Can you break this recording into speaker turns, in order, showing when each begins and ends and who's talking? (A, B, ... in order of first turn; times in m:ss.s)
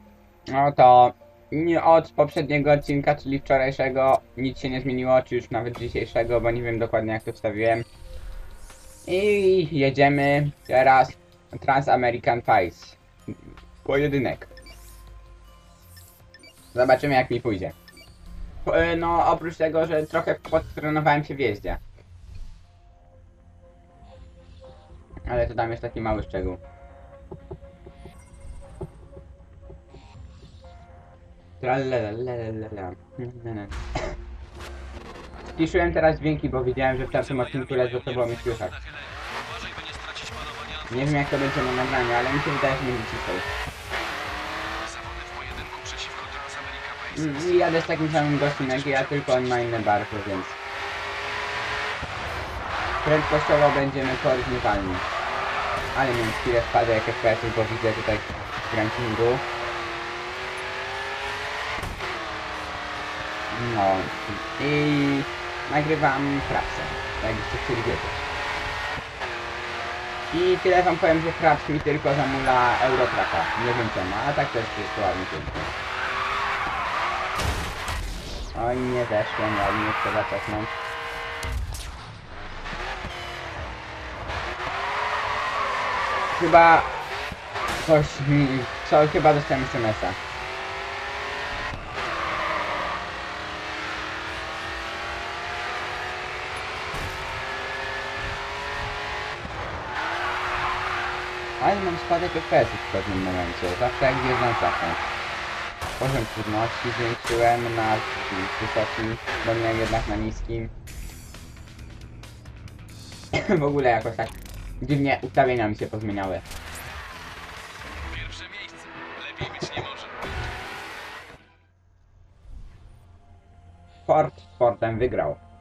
0:00.5-0:07.9 A
0:09.1-0:14.5 A
0:16.7-0:17.8 A
0:18.6-0:21.8 A
0:25.3-0:26.6 A
0:31.6-0:34.2 A
0:35.6-0:38.7 A
0:37.0-0:41.0 B
0:40.9-0:43.5 A
0:44.8-0:50.0 B
0:47.1-0:50.6 A
0:53.0-0:55.0 A
0:55.9-0:59.4 A
1:03.5-1:08.2 A
1:10.3-1:15.7 A
1:18.6-1:20.7 A
1:26.4-1:26.9 A
1:27.8-1:30.2 A
1:41.6-1:45.0 A
1:46.0-1:50.7 A
1:53.3-1:56.4 A
1:58.1-2:00.2 B
2:04.1-2:05.4 A